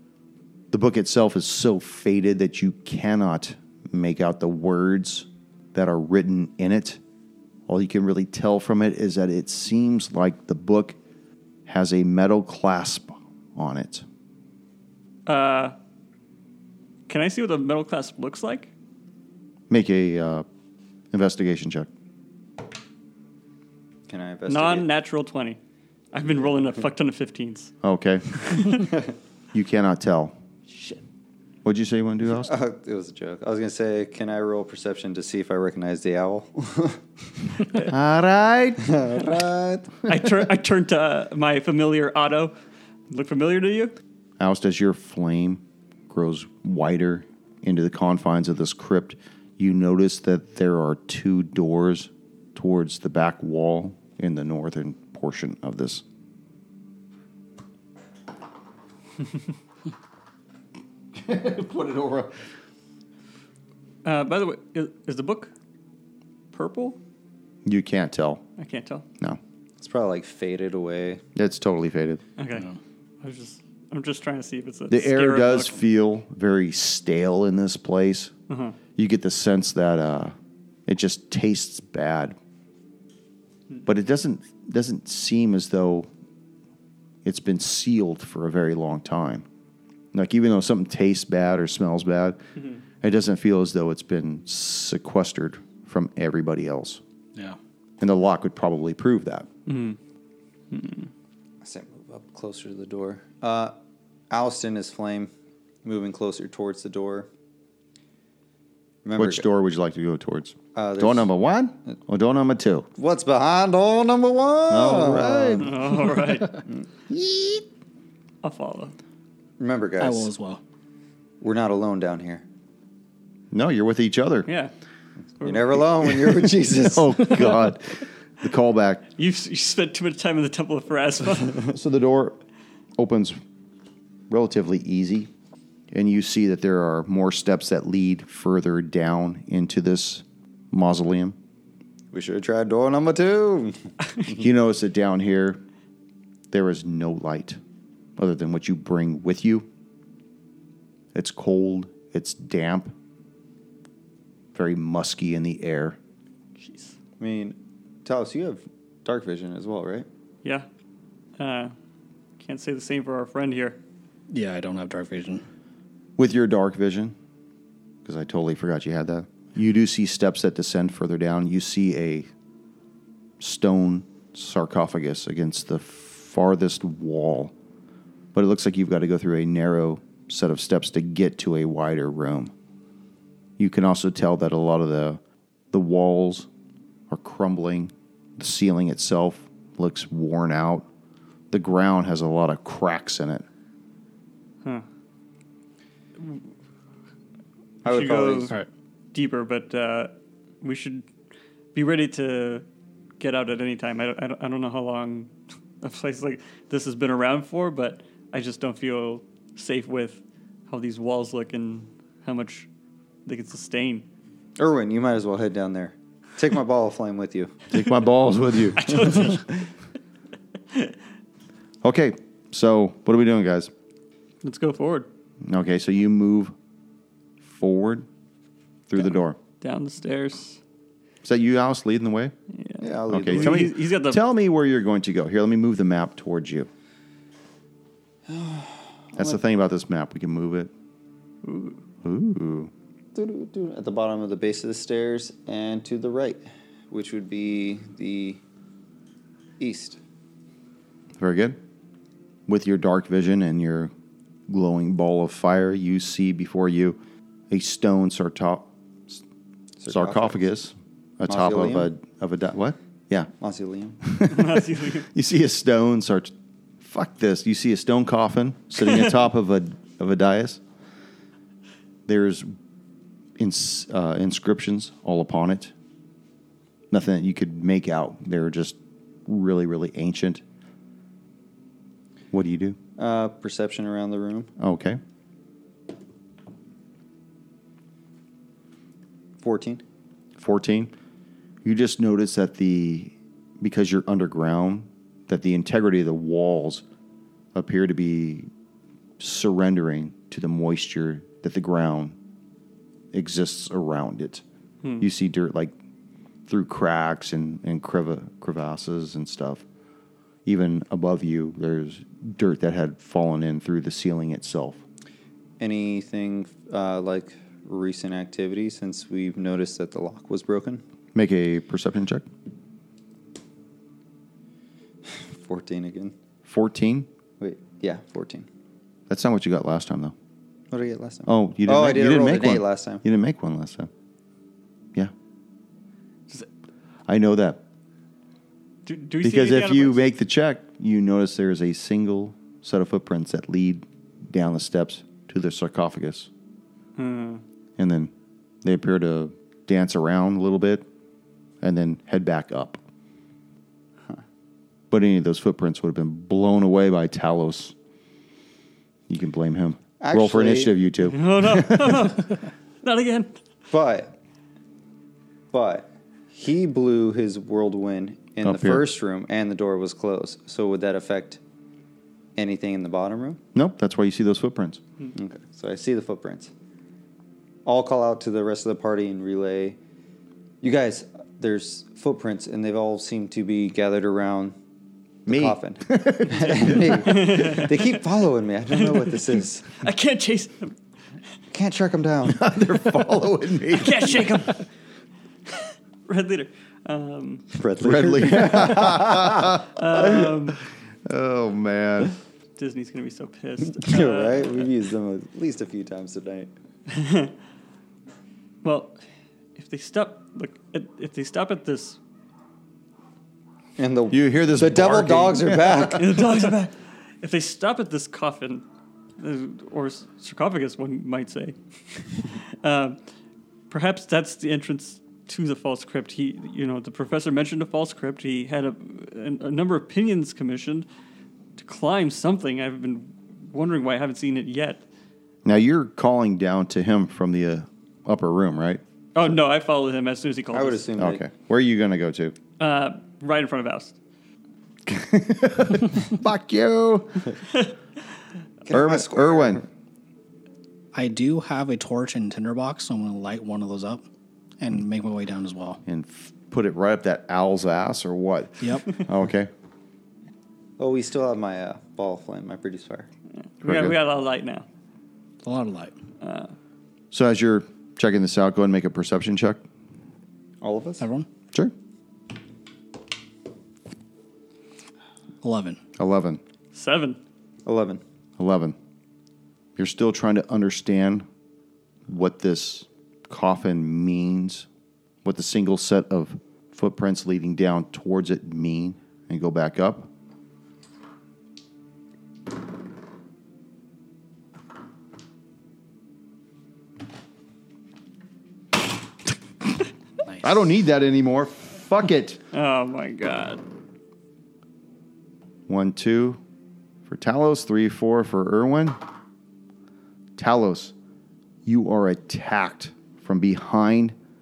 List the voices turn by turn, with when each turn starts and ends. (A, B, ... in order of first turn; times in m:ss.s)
0:00.7-0:07.0 A
0:07.7-0:11.0 A
0:11.7-0:14.0 A
0:15.3-0:15.8 B
0:17.1-0:18.7 B
0:19.7-0:20.4 A
0:21.1-0:21.9 A
0:24.1-0:24.9 C
0:24.5-0:25.6 B
0:26.1-0:27.7 B
0:27.8-0:28.7 A
0:28.5-0:28.8 B
0:28.9-0:29.1 C
0:29.5-0:30.4 A
0:30.7-0:31.0 B
0:31.6-0:32.5 A
0:32.3-0:37.0 C
0:37.8-0:38.9 A
0:38.8-0:40.0 C
0:40.1-0:42.5 B
0:43.1-0:43.9 B
0:44.4-0:56.0 A
1:01.2-1:02.4 A
1:04.0-1:05.5 B
1:06.5-1:07.0 B
1:07.6-1:08.4 A
1:08.6-1:09.0 B
1:09.8-1:11.2 C
1:11.4-1:12.2 A
1:12.4-1:15.8 B
1:14.9-1:18.3 A
1:18.5-1:18.8 B
1:19.0-1:20.4 A
1:20.9-1:22.4 A
1:23.9-1:26.1 A
1:27.2-1:29.4 A
1:30.1-1:32.4 A
1:33.0-1:37.0 A
1:38.0-1:39.5 A
1:39.7-1:40.0 B
1:40.7-1:41.1 B
1:41.6-1:43.8 C
1:44.3-1:45.3 C
1:45.8-1:47.3 C
1:49.0-1:49.4 C
1:49.2-1:52.9 A
1:50.8-1:51.3 C
1:53.0-1:55.7 C
1:54.7-1:55.7 A
1:55.6-1:56.6 B
1:57.1-1:57.6 A
1:58.4-1:59.0 B
1:59.6-2:00.3 C
2:00.0-2:00.6 D
2:01.4-2:02.4 C
2:03.5-2:04.5 A
2:04.5-2:04.7 B
2:05.4-2:06.3 B
2:05.4-2:07.6 C
2:06.8-2:09.1 A
2:09.2-2:11.7 B
2:11.7-2:12.4 A
2:13.0-2:13.4 A
2:14.3-2:15.3 A
2:15.9-2:21.4 A
2:22.1-2:24.4 C
2:24.3-2:25.6 A
2:26.5-2:27.6 A
2:28.2-2:29.7 A
2:31.1-2:32.9 A
2:34.5-2:36.0 A
2:36.6-2:36.9 B
2:37.2-2:40.1 C
2:41.4-2:41.7 B
2:42.4-2:43.8 B
2:44.3-2:45.4 D
2:46.2-2:47.2 A
2:48.0-2:52.3 A
2:53.4-2:57.5 A
2:58.3-3:02.5 A
3:03.6-3:05.2 A
3:05.7-3:06.5 A
3:07.1-3:10.9 A
3:11.5-3:13.4 A
3:17.8-3:18.5 B
3:17.8-3:18.5 C
3:19.1-3:20.1 B
3:20.6-3:21.1 B
3:21.8-3:22.6 B
3:23.2-3:25.3 B
3:25.8-3:32.7 B
3:33.3-3:34.0 B
3:34.6-3:37.6 C
3:37.7-3:39.3 A
3:38.8-3:39.6 B
3:41.8-3:43.7 A
3:44.4-3:45.1 B
3:45.4-3:46.5 A
3:47.5-3:48.1 A
3:48.9-3:49.4 A
3:49.6-3:50.6 B
3:51.2-3:52.3 A
3:52.5-3:54.2 B
3:52.8-3:53.7 C
3:53.1-3:56.7 A
3:58.3-3:59.4 C
3:59.2-4:00.7 A
4:01.4-4:01.8 B
4:02.0-4:02.7 A
4:03.2-4:08.4 C
4:09.6-4:10.0 C
4:11.2-4:11.6 A
4:12.5-4:13.9 A
4:14.5-4:17.0 A
4:17.5-4:19.2 A
4:19.8-4:20.4 C
4:19.9-4:23.3 A
4:21.3-4:21.9 C
4:23.4-4:24.0 C
4:24.0-4:30.6 A
4:24.3-4:25.1 B
4:32.1-4:32.5 A
4:33.4-4:35.7 A
4:36.9-4:40.4 A
4:42.3-4:42.8 A
4:43.0-4:44.5 C
4:44.6-4:45.0 A
4:49.4-4:49.8 C
4:50.4-4:50.9 A
4:51.6-4:56.8 A
4:57.6-4:58.5 A
4:59.2-5:02.2 A
5:03.1-5:04.4 A
5:05.0-5:05.7 A
5:06.5-5:09.6 A
5:10.5-5:14.8 A
5:15.6-5:20.8 C
5:21.2-5:22.3 A
5:25.1-5:26.1 C
5:26.4-5:27.1 A
5:27.4-5:28.5 C
5:29.1-5:30.1 A
5:30.7-5:33.0 C
5:31.3-5:33.9 A
5:37.1-5:37.6 A
5:38.9-5:40.1 B
5:39.2-5:46.3 A
5:47.0-5:47.4 B
5:47.8-5:48.1 A
5:48.6-5:50.9 A
5:51.6-5:52.8 A
5:54.9-5:57.8 A
5:59.1-6:02.0 A
6:00.0-6:00.8 C
6:01.1-6:03.4 B
6:03.7-6:04.1 C
6:05.5-6:11.4 C
6:08.4-6:08.9 A
6:12.4-6:13.4 C
6:13.6-6:14.8 A
6:15.1-6:16.5 C
6:17.6-6:19.8 C
6:20.6-6:24.6 C
6:25.3-6:29.7 C
6:25.3-6:27.2 A
6:26.8-6:28.0 B
6:28.7-6:30.8 B
6:31.5-6:32.5 C
6:32.2-6:34.3 A
6:33.7-6:34.7 B
6:35.5-6:37.5 B
6:37.5-6:40.3 C
6:37.8-6:40.3 A
6:39.7-6:40.6 B
6:41.1-6:42.2 A
6:42.6-6:44.7 B
6:43.6-6:46.5 C
6:46.9-6:47.3 B
6:48.6-6:49.0 B
6:49.6-6:52.0 B
6:53.8-6:56.3 C
6:54.1-6:56.0 A
6:56.0-6:58.6 B
6:59.2-7:03.0 B
7:03.7-7:10.9 B
7:11.6-7:14.8 B
7:15.4-7:18.8 A
7:19.2-7:20.9 B
7:20.5-7:21.2 C
7:21.0-7:22.4 A
7:22.6-7:24.0 B
7:24.9-7:27.2 A
7:28.7-7:29.7 C
7:28.7-7:29.6 A
7:30.9-7:34.0 D
7:34.6-7:35.8 D
7:35.9-7:39.5 A
7:38.6-7:38.9 D
7:40.8-7:43.1 C
7:43.4-7:44.7 B
7:43.6-7:44.0 A
7:45.4-7:46.0 D
7:46.2-7:46.5 B
7:47.1-7:49.6 A
7:50.6-7:51.1 C
7:51.0-7:51.3 D
7:55.4-7:55.8 D
7:56.0-7:56.4 A
7:56.7-7:57.2 B
7:57.7-7:58.0 C
7:58.4-7:58.8 A
7:59.8-8:01.3 A
8:02.1-8:04.7 A
8:05.2-8:10.1 A
8:20.4-8:22.4 A
8:22.5-8:23.6 B
8:25.7-8:26.4 A
8:27.1-8:29.0 A
8:30.4-8:30.9 A
8:31.6-8:34.2 A